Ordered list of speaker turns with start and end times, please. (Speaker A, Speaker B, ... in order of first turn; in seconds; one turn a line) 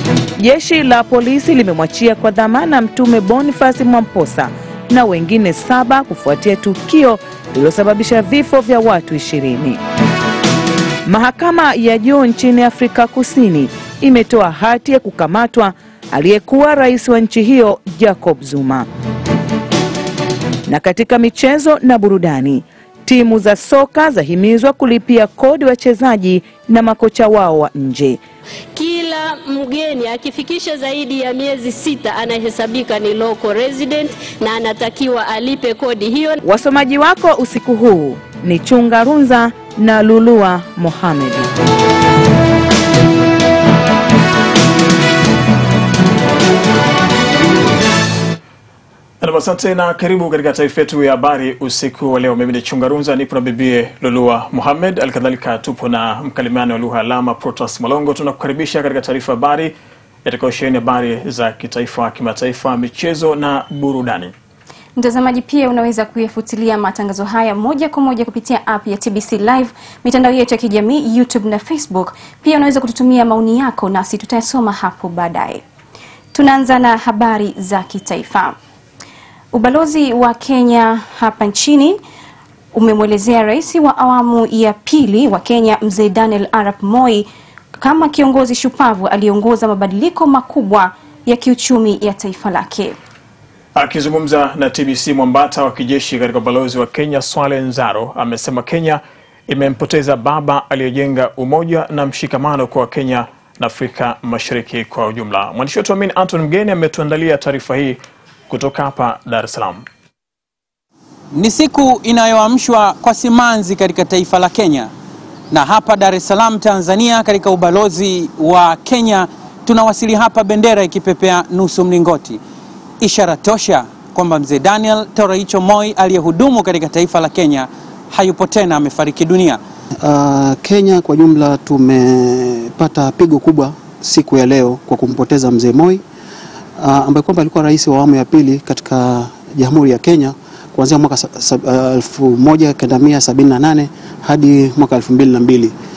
Speaker A: 0.4-9.8
Speaker A: 11.1-18.9
Speaker A: 20.7-28.2
Speaker B: 28.7-36.4
Speaker A: 36.5-41.5
Speaker C: 49.2-59.7
Speaker C: 60.2-64.3
Speaker D: 65.0-75.6
Speaker D: 76.3-78.5
Speaker D: 79.5-82.0
Speaker D: 82.7-87.3
Speaker D: 87.8-93.0
Speaker C: 93.8-108.0
Speaker C: 108.5-109.8
Speaker E: 111.3-114.9
Speaker E: 115.5-122.4
Speaker E: 123.0-129.6
Speaker F: 130.0-136.0
Speaker F: 136.8-145.7